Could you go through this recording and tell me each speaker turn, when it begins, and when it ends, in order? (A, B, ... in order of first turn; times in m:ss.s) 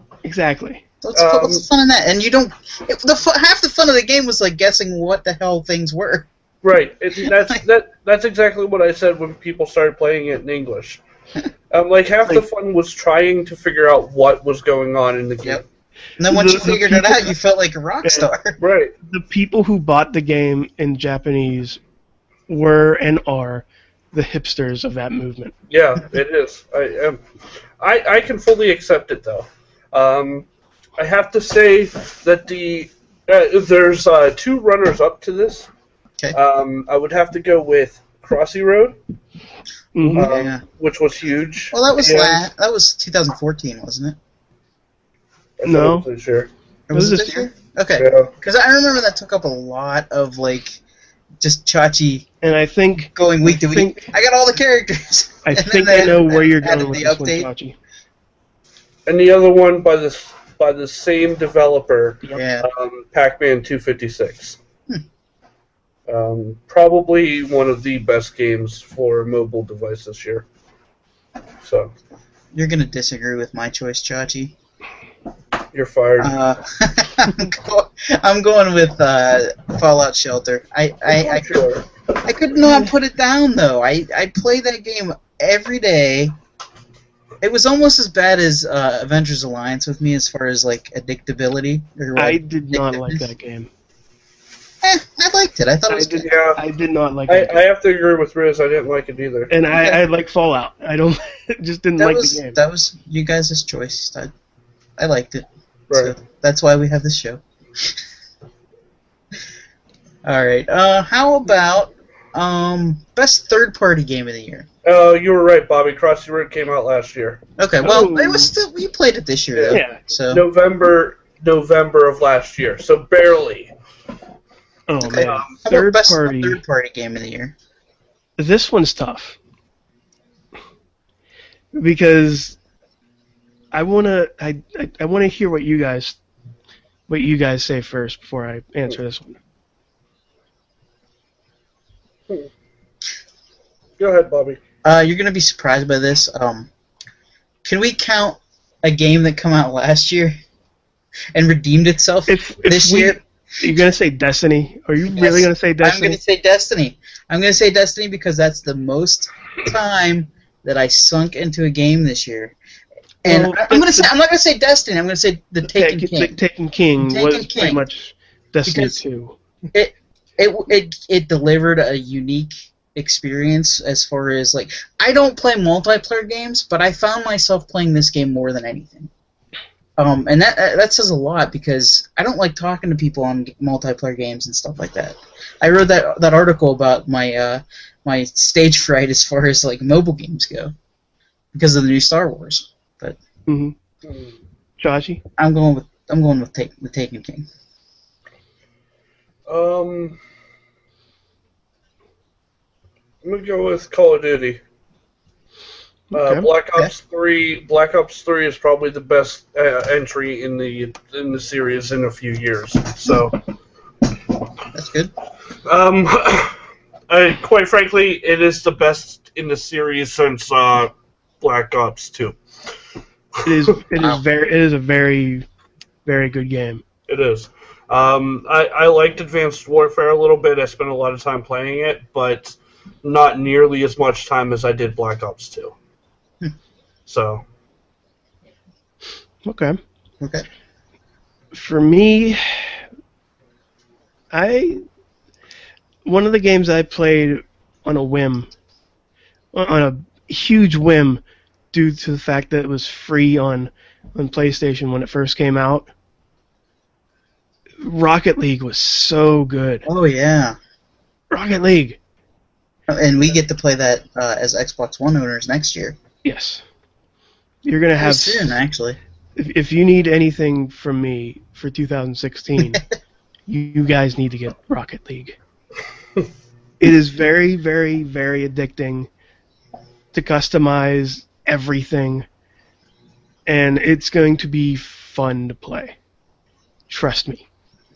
0:00.2-0:00.8 A
0:01.0-0:06.3 B
0:01.1-0:01.6 C
0:06.6-0:11.0 C
0:11.7-0:15.6 C
0:16.2-0:18.6 B
0:16.2-0:17.3 A
0:18.0-0:18.3 A
0:18.6-0:18.9 C
0:19.1-0:21.8 A
0:22.5-0:25.5 A
0:25.7-0:27.2 C
0:27.8-0:30.4 C
0:31.0-0:35.7 C
0:36.3-0:39.0 C
0:39.9-0:40.3 A
0:40.1-0:42.4 C
0:40.2-0:40.6 B
0:41.7-0:44.2 B
0:45.6-0:46.5 C
0:45.6-0:46.0 A
0:46.9-0:50.8 B
0:46.9-0:47.5 A
0:48.0-0:48.3 C
0:51.4-0:52.2 B
0:52.4-0:54.0 A
0:53.1-0:57.5 B
0:55.4-0:57.8 A
0:59.1-1:04.6 C
1:02.3-1:02.7 B
1:06.1-1:10.4 C
1:11.6-1:11.9 C
1:12.5-1:14.5 B
1:15.7-1:16.3 C
1:16.2-1:26.3 B
1:21.1-1:21.8 C
1:22.6-1:22.9 A
1:27.4-1:33.3 B
1:32.2-1:33.7 A
1:34.8-1:36.3 B
1:35.9-1:37.6 A
1:36.2-1:36.6 C
1:37.3-1:39.5 C
1:39.5-1:42.6 A
1:39.7-1:40.0 B
1:42.0-1:44.3 B
1:45.0-1:47.9 B
1:50.2-1:54.6 B
1:54.8-1:57.4 C
1:57.6-2:00.4 B
1:57.8-1:58.5 A
1:59.5-2:03.7 C
1:59.7-2:00.0 A
2:04.9-2:06.6 A
2:05.0-2:07.5 B
2:05.1-2:05.5 C
2:08.4-2:09.4 A
2:11.7-2:12.6 A
2:13.7-2:16.2 A
2:17.1-2:19.4 A
2:24.0-2:24.6 C
2:24.8-2:26.7 B
2:27.6-2:30.4 B
2:31.3-2:33.2 B
2:32.3-2:36.2 A
2:35.1-2:42.5 B
2:43.2-2:46.4 B
2:43.2-2:44.1 A
2:45.6-2:49.4 A
2:47.0-2:47.8 B
2:48.6-2:49.0 B
2:49.7-2:59.1 B
3:00.0-3:10.7 B
3:11.5-3:13.2 B
3:13.5-3:13.8 A
3:14.0-3:14.4 C
3:14.8-3:15.2 A
3:15.4-3:17.5 B
3:19.5-3:20.2 C
3:23.2-3:24.6 C
3:26.1-3:26.5 A
3:26.1-3:33.4 C
3:34.7-3:35.1 B
3:35.6-3:36.6 C
3:37.1-3:42.4 C
3:43.4-3:43.7 C
3:43.4-3:45.4 A
3:46.0-3:46.8 A
3:47.1-3:55.7 C
3:57.1-3:57.4 C
3:59.4-3:59.8 A
4:00.2-4:00.4 B
4:01.5-4:02.8 A
4:04.3-4:04.8 A
4:06.0-4:08.5 A
4:09.5-4:15.9 A
4:17.8-4:19.8 A
4:19.8-4:20.6 B
4:21.3-4:22.0 A
4:22.9-4:26.0 B
4:26.2-4:26.6 A
4:27.6-4:28.6 A
4:28.0-4:29.0 B
4:29.4-4:32.8 A
4:33.5-4:35.4 A
4:36.8-4:39.1 A
4:40.1-4:42.2 A
4:43.4-4:46.0 A
4:46.9-4:47.4 A